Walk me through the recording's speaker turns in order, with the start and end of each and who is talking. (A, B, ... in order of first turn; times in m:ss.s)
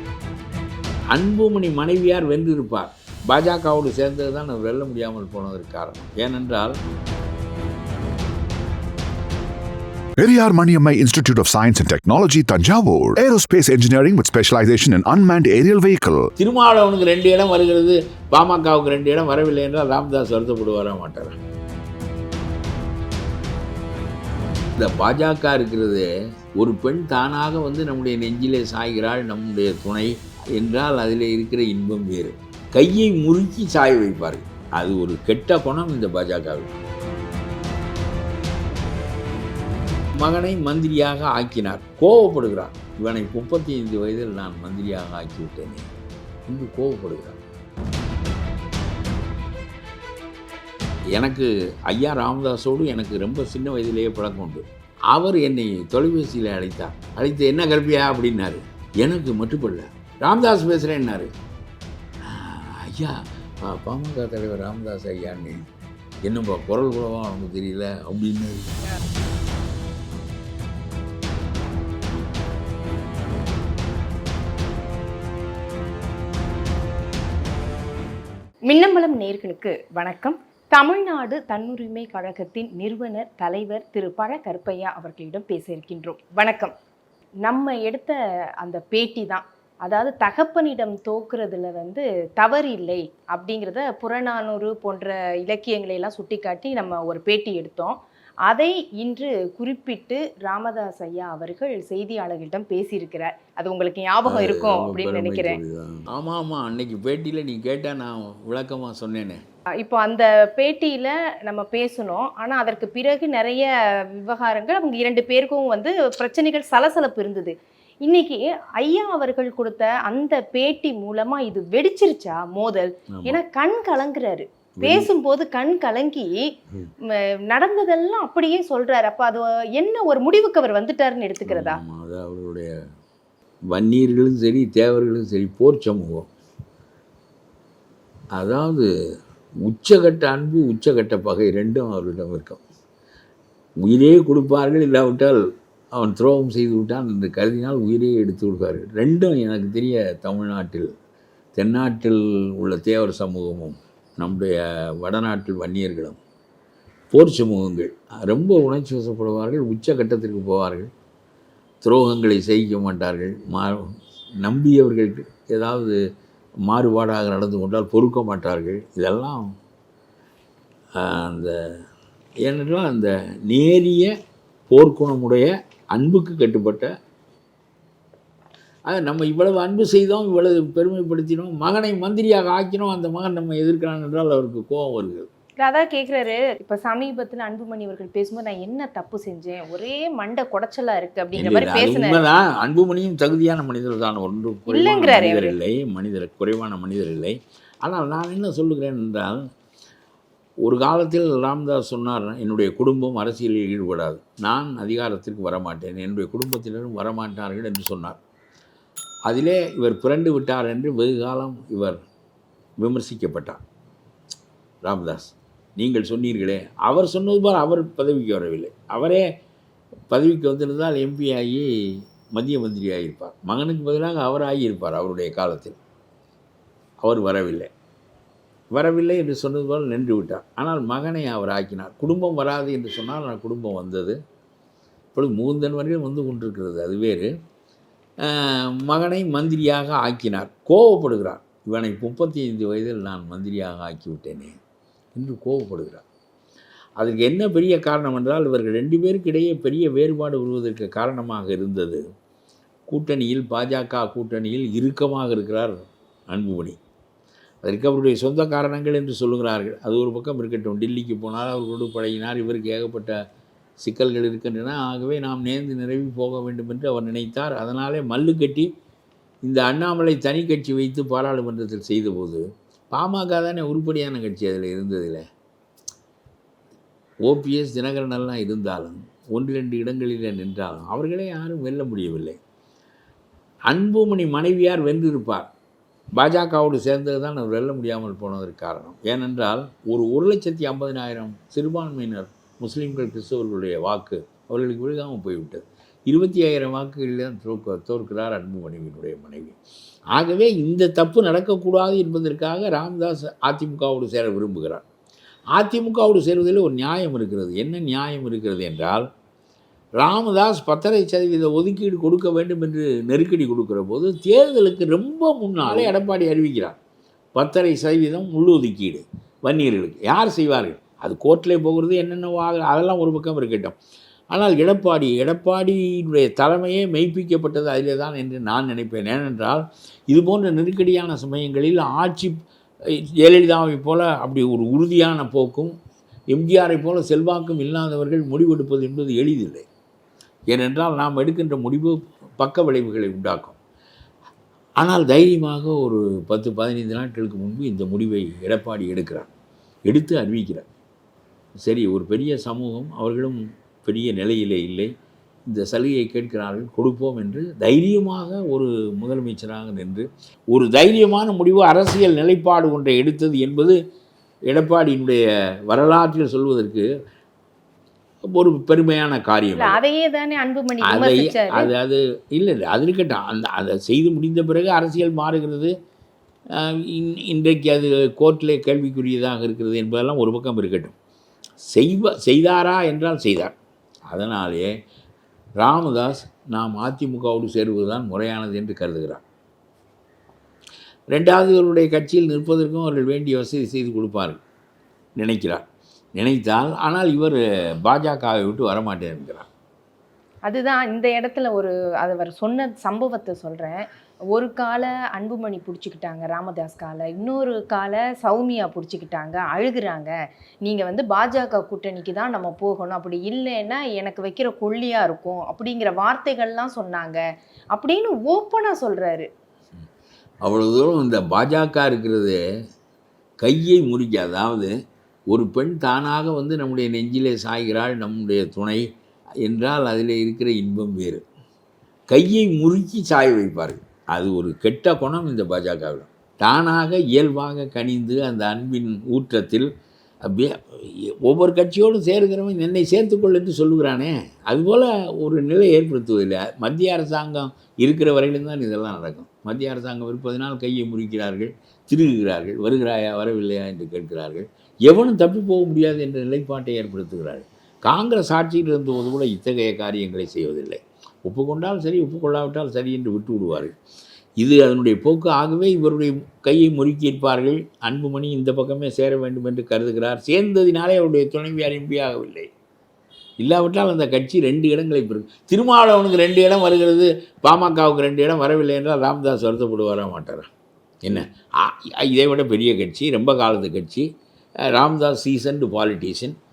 0:01.1-0:06.8 A
0:10.2-0:16.3 B
0:16.4-0:21.4 A
0:24.8-0:36.7 A
0:40.2-0:45.9 A
0:46.5-0:47.4 A
0:51.2-1:01.3 A
1:02.3-1:05.6 A
1:06.2-1:08.8 A
1:18.7-1:26.7 C
1:27.4-1:45.6 C
1:44.3-1:49.4 A
1:49.8-2:06.5 C
2:03.1-2:03.4 A
2:04.8-2:05.1 A
2:07.0-2:11.8 C
2:11.5-2:12.7 A
2:13.7-2:16.3 A
2:18.3-2:18.9 A
2:19.6-2:22.6 A
2:23.8-2:25.4 A
2:25.9-2:30.9 A
2:31.6-2:36.2 A
2:37.1-2:40.9 A
2:41.8-2:43.9 A
2:44.4-2:46.0 A
2:46.7-2:49.5 A
2:51.0-2:51.7 A
2:52.4-2:54.1 A
2:54.7-2:56.9 A
2:58.9-3:05.3 A
3:05.6-3:12.2 C
3:11.4-3:19.4 A
3:14.7-3:15.6 C
3:20.6-3:28.2 A
3:29.3-3:32.0 A
3:32.8-3:33.6 A
3:34.8-3:39.2 A
3:40.1-3:41.7 A
3:42.3-3:45.8 A
3:47.0-3:47.7 A
3:48.7-3:54.2 A
3:55.1-3:57.3 A
3:58.2-4:04.6 A
4:05.2-4:06.0 A
4:07.0-4:12.0 A
4:12.9-4:16.8 A
4:17.6-4:23.2 A
4:23.8-4:28.7 A
4:29.4-4:35.2 A
4:37.2-4:42.4 A
4:43.7-4:45.5 A
4:46.2-4:59.6 A
5:00.1-5:04.8 A
5:05.6-5:09.1 A
5:10.0-5:16.8 A
5:15.6-5:15.9 C
5:17.4-5:23.8 A
5:24.3-5:32.4 A
5:33.0-5:35.7 A
5:36.3-5:39.7 A
5:40.5-5:43.6 A
5:44.8-5:49.3 A
5:49.9-5:50.7 A
5:51.6-5:54.9 A
5:55.5-6:03.8 A
6:04.5-6:06.9 A
6:08.3-6:09.8 A
6:09.6-6:11.7 C
6:10.8-6:15.7 A
6:16.6-6:20.9 A
6:21.7-6:23.5 A
6:24.1-6:24.7 A
6:25.6-6:29.2 A
6:31.1-6:34.4 A
6:35.2-6:35.6 A
6:36.2-6:39.5 A
6:40.5-6:50.1 C
6:50.6-6:57.2 C
6:57.7-6:59.3 C
7:00.4-7:02.4 A
7:03.4-7:04.7 A
7:05.3-7:08.9 A
7:09.4-7:11.2 A
7:12.1-7:19.7 A
7:20.2-7:43.7 A
7:44.4-7:52.5 A
7:53.4-8:00.5 A
8:01.0-8:04.1 A
8:04.7-8:06.4 A